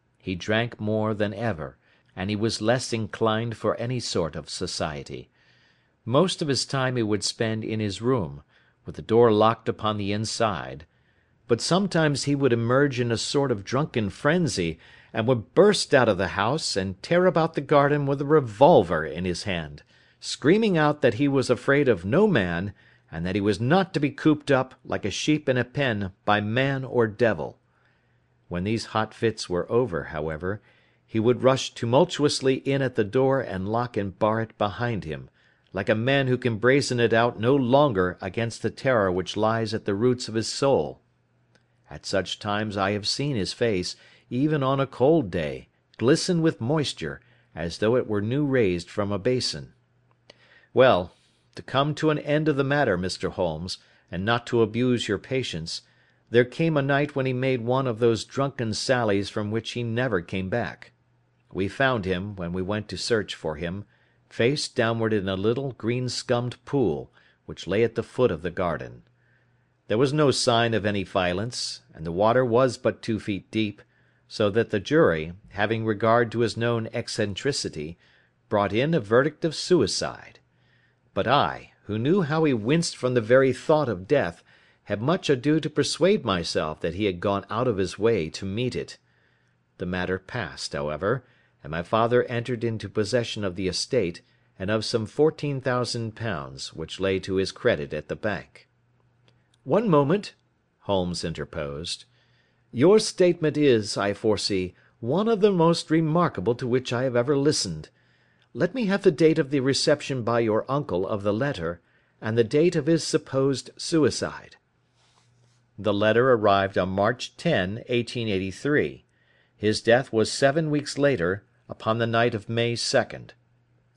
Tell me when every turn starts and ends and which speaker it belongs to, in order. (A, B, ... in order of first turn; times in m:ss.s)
0:00.2-0:05.3 A
0:06.0-0:10.9 A
0:11.5-0:27.6 A
0:28.5-0:41.0 A
0:41.9-0:49.7 A
0:50.7-1:00.9 A
1:01.5-1:09.0 A
1:09.9-1:20.4 A
1:21.1-1:29.0 A
1:29.8-1:38.7 A
1:39.6-1:42.1 A
1:42.7-1:47.9 A
1:48.5-1:54.6 A
1:55.8-1:59.0 A
1:59.6-2:03.4 A